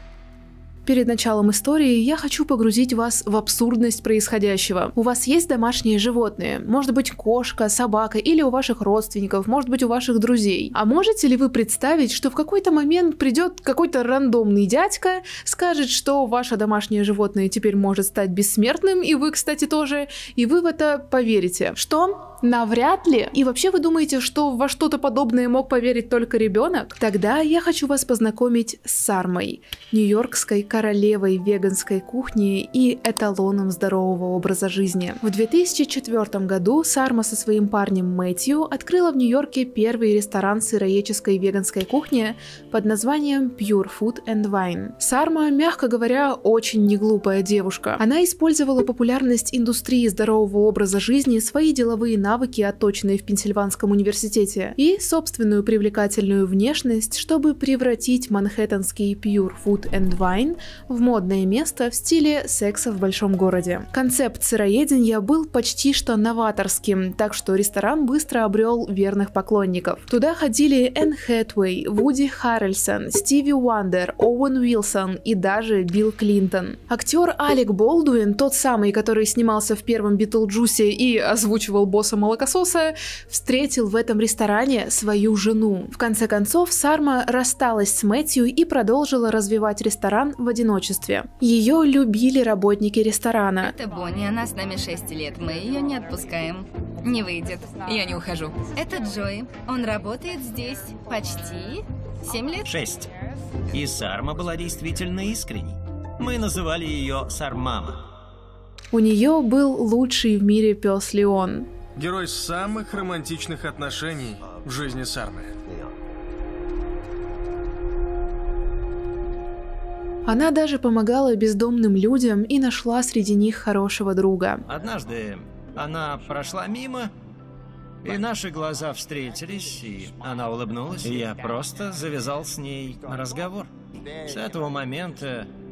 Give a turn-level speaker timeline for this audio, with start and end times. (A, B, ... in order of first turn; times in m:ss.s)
0:00.8-1:33.7 A
1:33.6-1:42.7 B
1:42.6-1:43.1 C
1:43.7-1:48.0 C
1:48.9-1:51.7 A
1:52.0-1:55.6 D
2:00.2-2:04.6 A
2:04.7-2:07.1 C
2:08.0-2:13.7 C
2:14.2-2:15.5 C